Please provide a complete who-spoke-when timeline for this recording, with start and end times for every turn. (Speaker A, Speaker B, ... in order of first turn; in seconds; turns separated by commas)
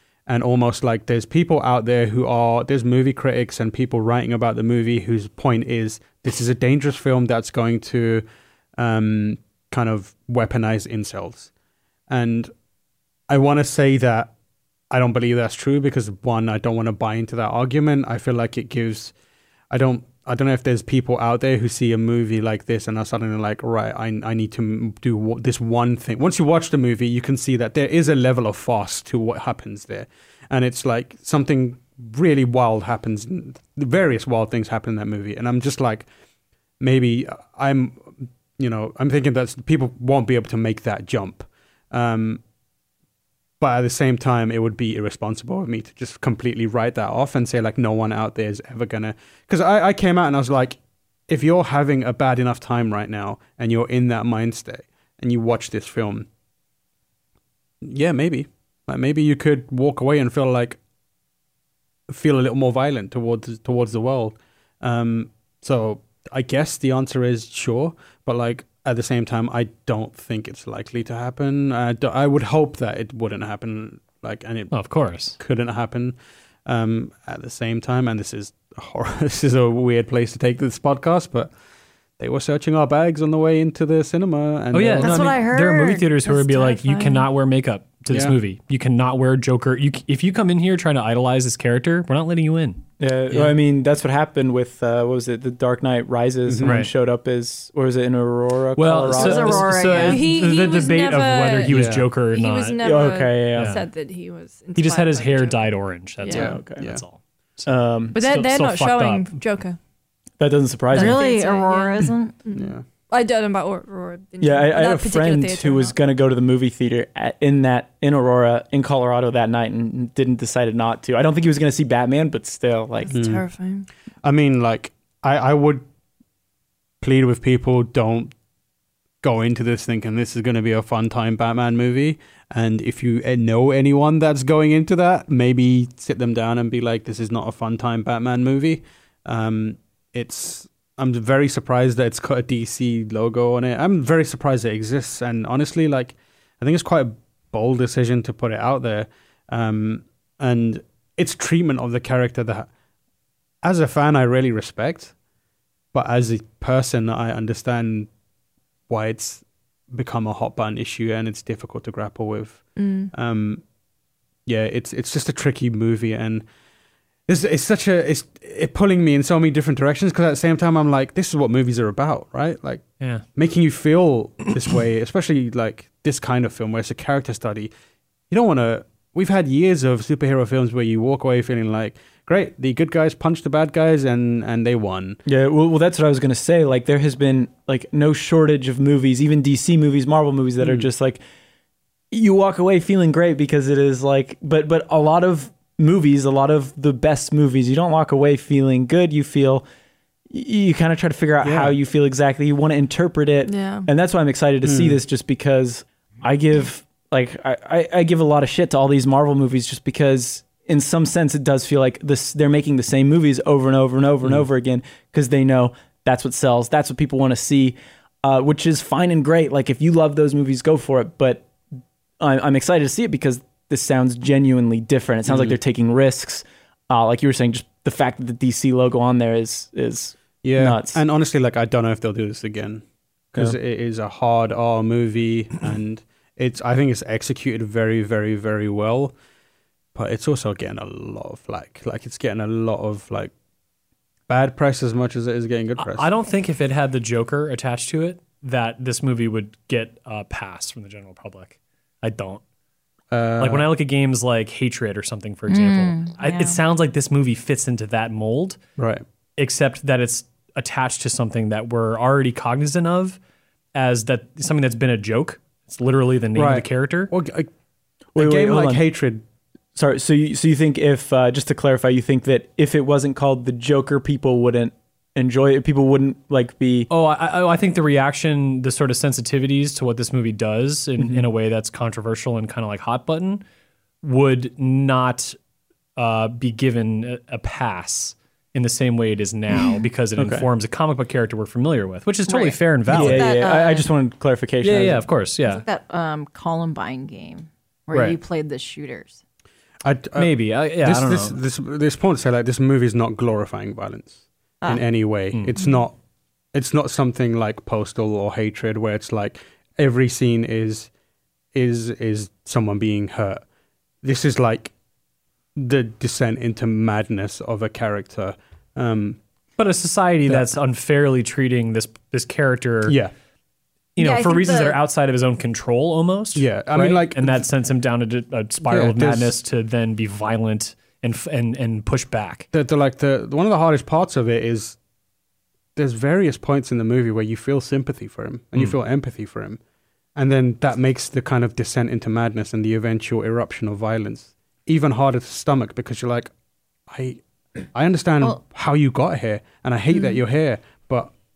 Speaker A: 0.3-8.2, Speaker A: 8.8-11.5, Speaker A: 12.1-12.5, Speaker A: 13.3-14.3, Speaker A: 14.9-19.1, Speaker A: 19.7-36.1, Speaker A: 36.8-42.4, Speaker A: 43.6-56.3, Speaker A: 57.8-60.8, Speaker A: 62.1-74.7, Speaker B: 74.7-75.4, Speaker A: 75.4-81.5, Speaker A: 82.2-85.4, Speaker B: 84.7-92.8, Speaker C: 85.0-86.1, Speaker D: 86.2-87.3, Speaker A: 88.1-88.3, Speaker E: 93.0-100.1, Speaker A: 96.5-96.8, Speaker B: 96.6-96.9, Speaker B: 98.8-102.8, Speaker C: 99.1-100.2, Speaker D: 100.1-105.6, Speaker A: 101.7-102.1, Speaker E: 102.8-103.8, Speaker B: 103.5-103.8, Speaker B: 104.8-109.3, Speaker D: 106.2-106.5, Speaker E: 106.3-106.9, Speaker A: 106.3-107.0, Speaker E: 107.7-108.2, Speaker D: 108.1-109.8, Speaker E: 110.4-111.2, Speaker C: 110.9-112.3, Speaker D: 110.9-116.0, Speaker A: 112.5-112.8, Speaker E: 114.4-123.1, Speaker D: 123.0-123.9, Speaker A: 123.1-123.4, Speaker A: 124.2-125.8, Speaker A: 127.0-128.3, Speaker A: 129.2-152.7, Speaker A: 153.6-155.1, Speaker A: 155.9-158.1, Speaker A: 158.9-163.6, Speaker D: 162.8-163.1, Speaker A: 164.5-166.5, Speaker A: 167.3-172.8, Speaker A: 173.3-177.7, Speaker A: 178.3-185.2, Speaker E: 185.3-191.2, Speaker A: 190.6-190.9, Speaker E: 192.1-199.7, Speaker E: 200.3-221.5, Speaker A: 201.4-201.7, Speaker D: 203.4-203.9, Speaker A: 204.7-205.0, Speaker E: 222.2-231.0, Speaker A: 225.3-225.6, Speaker A: 230.4-239.1, Speaker A: 239.9-243.3, Speaker A: 244.3-246.1, Speaker B: 245.8-252.4, Speaker A: 253.1-253.7, Speaker B: 253.4-258.6, Speaker C: 255.5-256.6, Speaker A: 258.8-259.0, Speaker B: 259.4-263.2, Speaker B: 263.8-267.1, Speaker A: 266.4-267.5, Speaker E: 268.1-268.8, Speaker A: 268.2-269.2, Speaker E: 269.8-276.9, Speaker B: 276.9-283.4, Speaker B: 284.0-285.4, Speaker B: 286.0-293.3, Speaker E: 290.2-290.5, Speaker C: 292.3-293.9, Speaker E: 292.9-295.1, Speaker B: 294.6-295.6, Speaker C: 295.4-299.2, Speaker B: 297.9-298.2, Speaker A: 299.8-306.0, Speaker B: 300.2-301.4, Speaker A: 306.5-310.9, Speaker A: 311.5-313.4, Speaker A: 314.0-314.7, Speaker A: 315.6-319.2, Speaker B: 319.6-323.0, Speaker A: 322.9-323.1, Speaker B: 324.0-332.5, Speaker C: 324.0-324.8, Speaker A: 326.4-327.5, Speaker A: 328.7-329.4, Speaker A: 332.5-334.8, Speaker A: 335.8-339.6, Speaker A: 340.2-346.3, Speaker A: 346.9-347.2, Speaker A: 347.7-351.1